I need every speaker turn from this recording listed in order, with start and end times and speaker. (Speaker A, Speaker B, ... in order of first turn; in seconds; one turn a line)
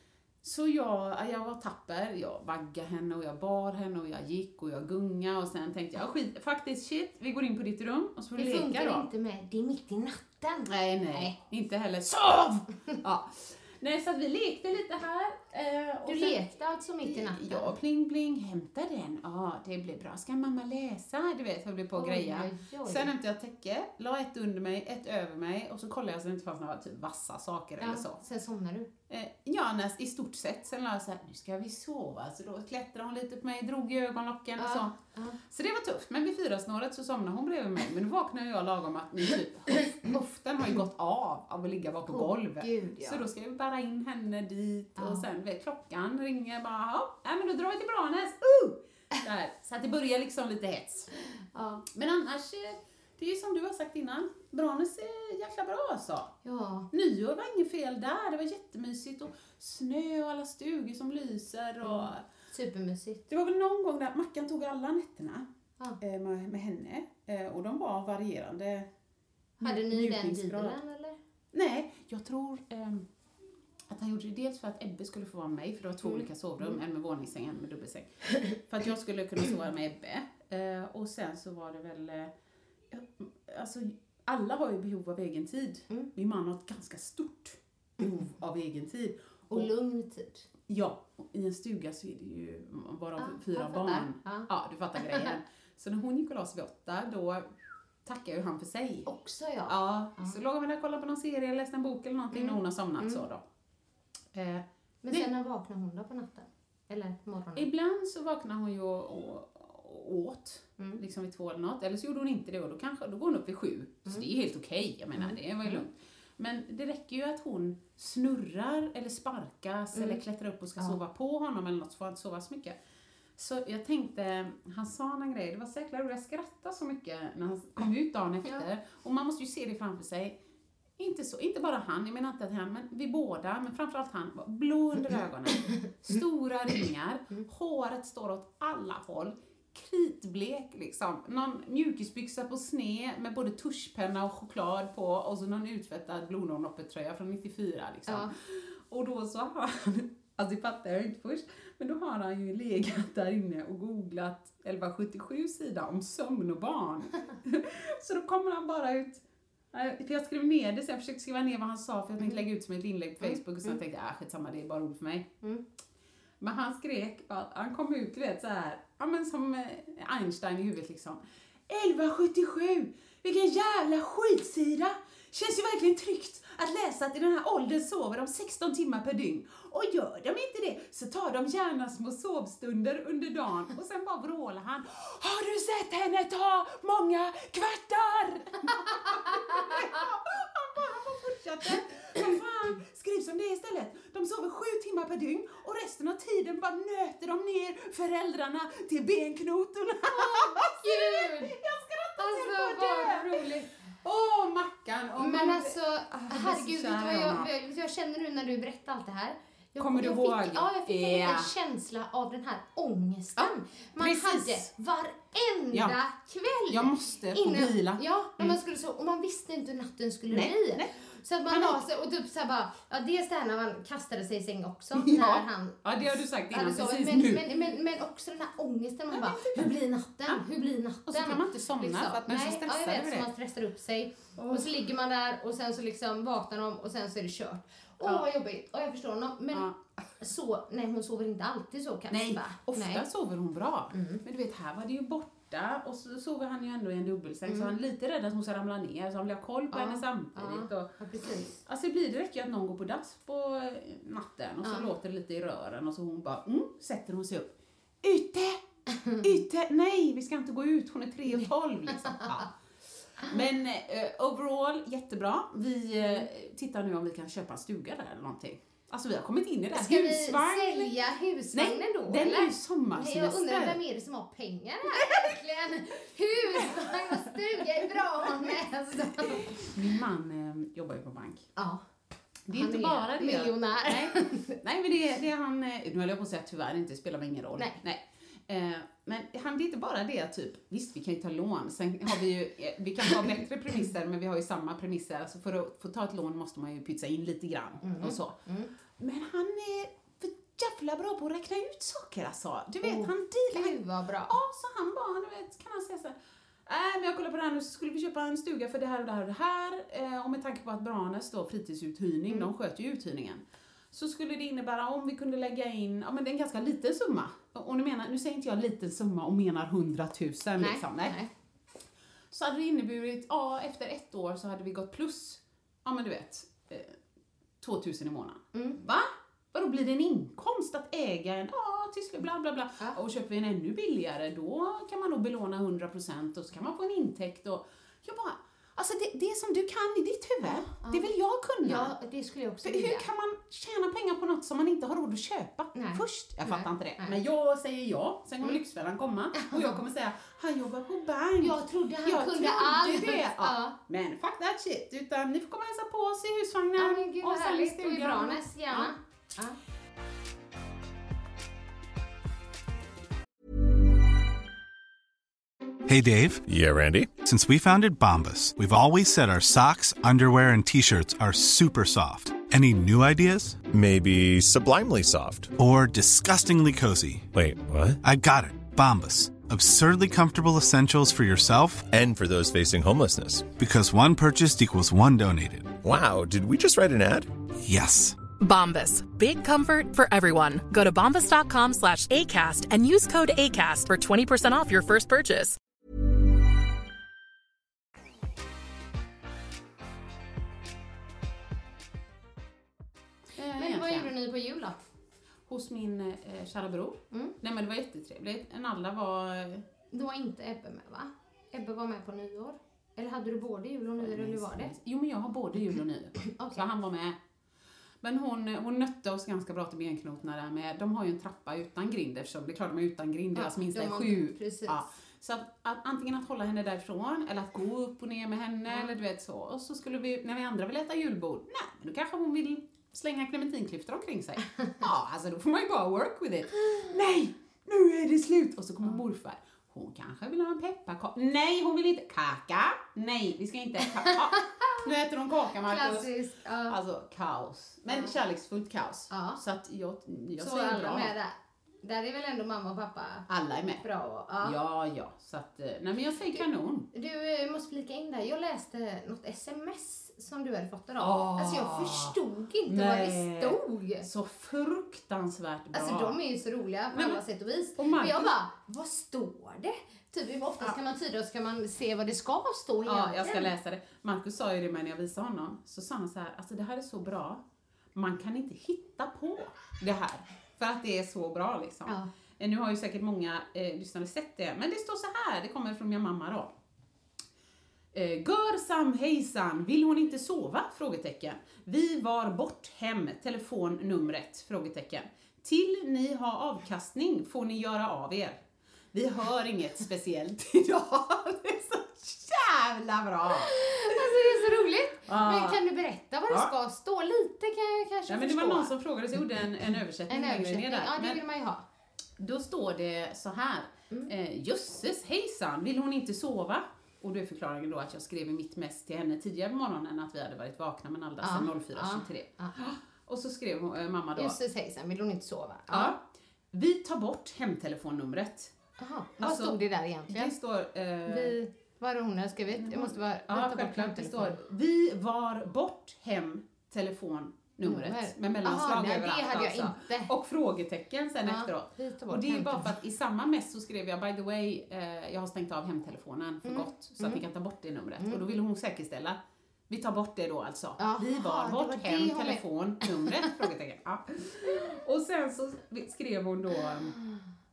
Speaker A: 0.4-9.1
Speaker B: 8.4-11.3
Speaker A: 10.7-16.4
Speaker B: 16.1-17.8
Speaker A: 17.0-28.2
Speaker B: 21.9-23.1
Speaker B: 27.8-28.9
Speaker A: 29.1-51.1
Speaker B: 34.6-35.4
Speaker B: 42.1-43.2
Speaker B: 45.0-45.2
Speaker B: 51.5-51.9
Speaker A: 51.9-56.4
Speaker B: 56.5-56.9
Speaker A: 56.9-62.2
Speaker B: 61.8-63.2
Speaker A: 63.3-65.5
Speaker A: 66.0-68.9
Speaker A: 69.6-70.8
Speaker B: 69.6-71.2
Speaker A: 71.5-73.1
Speaker A: 73.9-82.3
Speaker B: 76.0-76.8
Speaker A: 82.9-89.7
Speaker B: 89.5-90.5
Speaker A: 90.7-97.5
Speaker B: 93.2-95.3
Speaker A: 98.0-99.1
Speaker B: 99.1-100.3
Speaker A: 99.7-103.4
Speaker B: 102.3-103.2
Speaker A: 104.3-105.3
Speaker B: 105.0-107.7
Speaker A: 107.6-122.8
Speaker B: 115.2-115.8
Speaker B: 119.9-120.2
Speaker A: 123.4-130.3
Speaker A: 131.0-165.3
Speaker B: 148.1-148.3
Speaker B: 163.2-163.8
Speaker A: 166.4-203.5
Speaker B: 200.1-201.6
Speaker B: 202.2-203.7
Speaker A: 204.0-207.5
Speaker B: 205.2-225.8
Speaker A: 209.8-211.5
Speaker A: 213.4-214.7
Speaker A: 216.7-218.6
Speaker A: 220.3-220.9
Speaker A: 221.5-221.8
Speaker A: 225.0-227.5
Speaker B: 226.5-239.7
Speaker A: 229.1-229.7
Speaker A: 231.1-233.3
Speaker A: 234.4-234.7
Speaker A: 239.5-239.8
Speaker B: 240.2-243.1
Speaker A: 242.1-250.9
Speaker B: 243.9-244.2
Speaker B: 247.5-247.8
Speaker B: 249.7-251.6
Speaker A: 251.6-257.5
Speaker B: 254.6-254.9
Speaker A: 258.0-258.6
Speaker A: 259.2-262.5
Speaker A: 263.2-270.9
Speaker B: 269.7-279.7
Speaker A: 271.5-273.8
Speaker A: 274.9-275.3
Speaker A: 276.5-277.1
Speaker A: 279.3-281.5
Speaker B: 281.6-281.8
Speaker A: 282.5-298.4
Speaker B: 282.5-284.6
Speaker B: 297.8-298.7
Speaker A: 299.0-306.1
Speaker B: 302.8-304.4
Speaker A: 306.7-321.2
Speaker B: 320.6-321.3
Speaker A: 322.3-327.0
Speaker A: 327.6-341.9
Speaker B: 328.5-328.8
Speaker B: 340.8-341.1
Speaker B: 341.6-343.1
Speaker A: 342.6-358.9
Speaker B: 345.8-347.2
Speaker B: 349.4-349.8
Speaker B: 351.4-353.8
Speaker B: 356.8-359.6
Speaker C: 365.9-366.4
Speaker D: 366.5-367.1
Speaker C: 367.1-373.6
Speaker D: 373.7-375.6
Speaker C: 375.6-377.3
Speaker D: 377.3-378.0
Speaker C: 378.0-381.9
Speaker D: 381.9-383.6
Speaker C: 383.5-385.8
Speaker D: 385.8-387.3
Speaker C: 387.6-388.2
Speaker E: 388.4-395.6
Speaker A: 403.4-404.1
Speaker B: 403.6-404.8
Speaker A: 405.5-409.6
Speaker B: 409.9-414.7
Speaker A: 414.0-417.2
Speaker B: 416.2-416.6
Speaker A: 418.0-446.1
Speaker B: 423.4-424.8
Speaker B: 428.7-428.9
Speaker B: 444.0-444.8
Speaker B: 445.6-446.8
Speaker A: 446.7-451.1
Speaker B: 449.1-449.4
Speaker B: 450.4-453.3
Speaker A: 453.3-453.9
Speaker B: 453.8-454.6
Speaker A: 454.4-456.9
Speaker B: 456.4-464.1
Speaker A: 461.0-462.2
Speaker A: 462.7-466.2
Speaker B: 465.7-473.5
Speaker A: 466.9-467.2
Speaker A: 467.8-468.3
Speaker A: 472.9-477.4
Speaker A: 477.9-486.5
Speaker A: 487.9-498.4
Speaker A: 498.9-504.5
Speaker B: 503.3-508.7
Speaker A: 505.1-505.6
Speaker A: 508.1-511.2
Speaker B: 510.1-511.6
Speaker A: 512.2-524.4
Speaker B: 521.2-522.6
Speaker B: 524.2-526.0
Speaker A: 525.7-526.0
Speaker A: 526.5-528.5
Speaker B: 528.8-530.3
Speaker A: 529.2-531.4
Speaker B: 531.1-534.4
Speaker A: 532.5-549.2
Speaker B: 537.6-540.1
Speaker B: 541.2-542.8
Speaker B: 546.5-547.2
Speaker A: 549.7-557.0
Speaker B: 550.8-553.3